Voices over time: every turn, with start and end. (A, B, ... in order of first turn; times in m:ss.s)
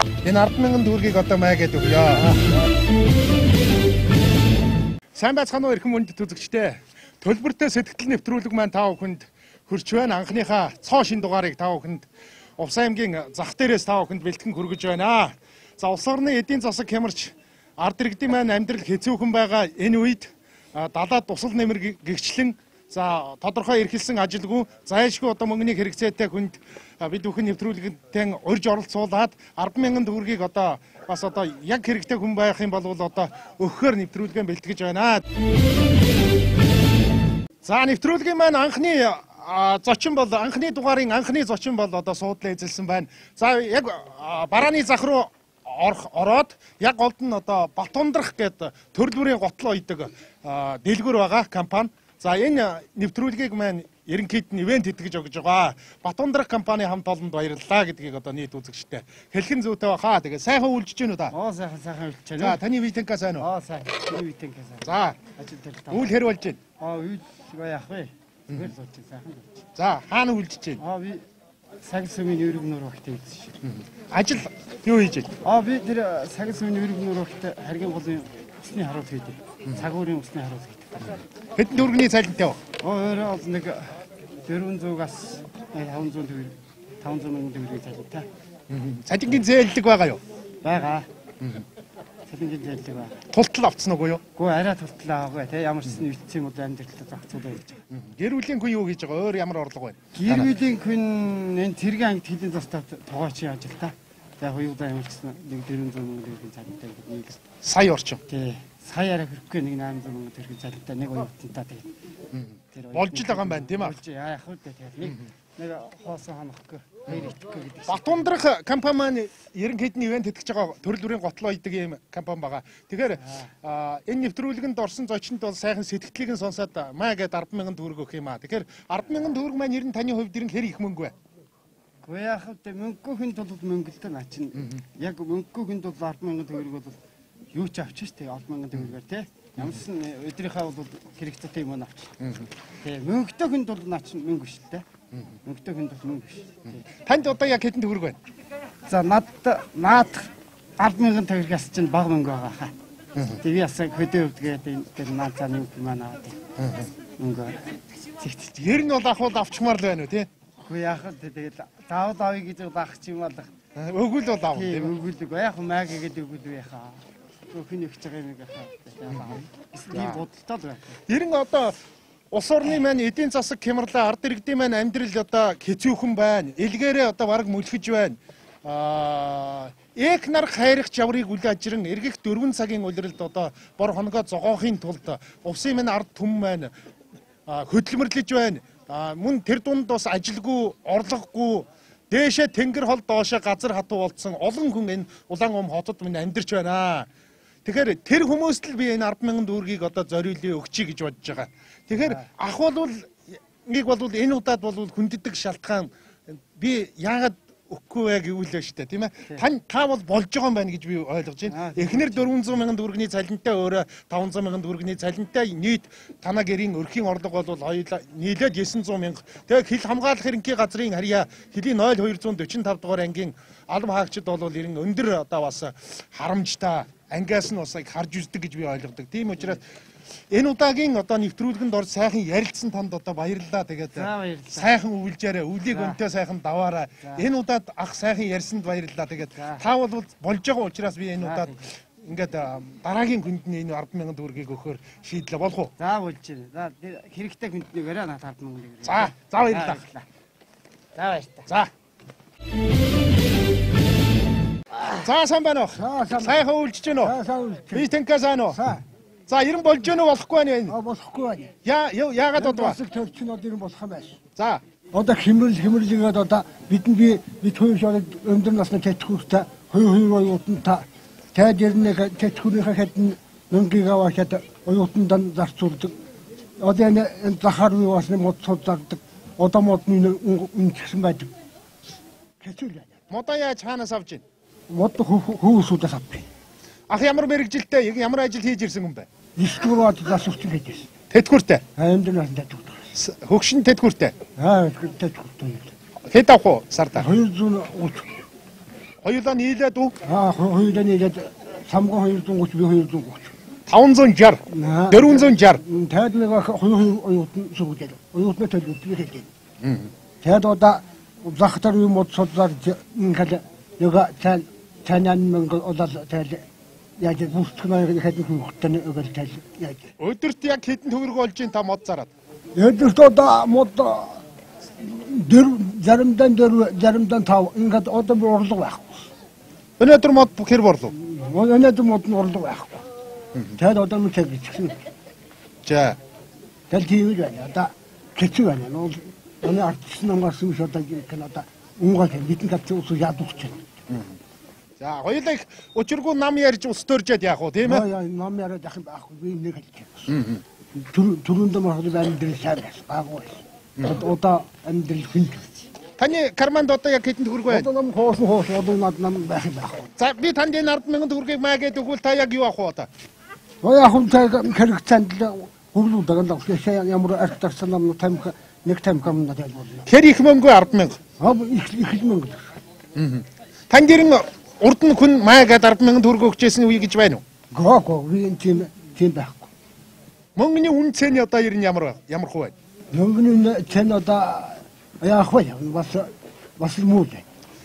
0:00.2-0:02.4 A
0:05.1-0:12.0 A
0:12.6-0:35.2 A
0:37.6-1:01.3 A
1:01.3-1:02.6 B
1:02.4-1:03.5 A
1:03.4-1:06.2 B
1:04.8-1:05.2 A
1:05.9-1:06.6 A
1:06.8-1:09.6 B
1:09.8-1:10.8 A
1:10.8-1:11.2 B
1:11.8-1:13.5 B
1:13.6-1:15.3 A
1:15.4-1:21.2 B
1:21.6-1:22.6 A
1:22.8-1:23.9 B
1:24.4-1:28.3 B
1:28.7-1:30.2 A
1:30.6-1:31.1 B
1:32.3-1:33.2 B
1:33.3-1:34.2 A
1:34.4-1:37.8 B
1:37.9-1:40.5 A
1:40.1-1:47.4 B
1:47.6-1:48.2 A
1:48.3-1:51.9 B
1:52.3-1:54.0 A
1:52.7-1:58.4 B
1:57.9-2:11.1 A
2:03.2-2:03.5 B
2:12.0-2:17.0 B
2:17.5-2:22.1 B
2:22.2-2:22.5 A
2:22.8-2:24.8 B
2:25.4-2:26.8 B
2:27.0-2:28.2 A
2:28.8-2:32.7 B
2:33.4-2:36.4 B
2:36.6-2:36.9 A
2:37.2-2:37.6 B
2:38.2-2:38.5 B
2:38.6-2:40.3 A
2:40.6-2:43.5 B
2:43.8-2:45.0 A
2:44.5-2:51.0 B
2:49.1-2:49.4 A
2:49.9-2:50.2 A
2:51.1-2:51.8 A
2:52.3-3:06.7 A
3:07.5-3:17.1 A
3:17.6-3:49.6 A
3:21.9-3:22.3 B
3:31.5-3:32.5 B
3:50.3-4:05.7 A
3:53.9-3:54.7 B
3:55.7-3:56.0 B
3:59.3-3:59.6 B
4:01.2-4:01.6 B
4:05.8-4:10.0 B
4:08.8-4:09.8 A
4:10.9-4:11.5 B
4:15.0-4:17.1 A
4:15.7-4:16.5 C
4:17.0-4:17.9 C
4:17.7-4:18.6 A
4:18.5-4:18.8 C
4:19.3-4:20.7 A
4:20.7-4:21.5 C
4:21.6-4:22.8 A
4:22.4-4:24.2 C
4:24.4-4:24.6 A
4:24.9-4:36.0 C
4:36.6-4:41.3 C
4:42.4-4:43.0 C
4:43.1-4:44.2 A
4:44.7-4:46.3 C
4:46.9-4:49.1 A
4:49.4-4:50.9 C
4:51.1-4:51.6 A
4:51.8-4:52.9 C
4:53.0-4:54.1 A
4:54.4-4:55.7 C
4:56.1-4:57.1 A
4:56.9-4:58.1 C
4:59.0-5:00.0 A
5:00.0-5:03.3 C
5:03.7-5:05.6 A
5:04.5-5:09.3 C
5:09.6-5:09.9 A
5:10.2-5:16.4 C
5:17.0-5:19.9 C
5:20.0-5:22.1 A
5:22.5-5:24.2 C
5:24.8-5:29.1 C
5:29.8-5:30.9 A
5:30.9-5:32.8 C
5:33.6-5:34.8 C
5:35.6-5:36.0 A
5:36.7-5:43.6 C
5:43.9-5:44.2 A
5:44.8-5:47.8 A
5:47.6-5:50.1 C
5:50.1-5:50.4 A
5:50.7-5:55.6 C
5:56.0-5:57.7 A
5:57.5-5:59.9 C
6:00.0-6:02.9 A
6:03.6-6:09.9 C
6:09.9-6:11.0 A
6:11.2-6:12.5 C
6:12.9-6:17.2 A
6:17.5-6:19.5 C
6:20.4-6:22.5 A
6:22.9-6:27.2 C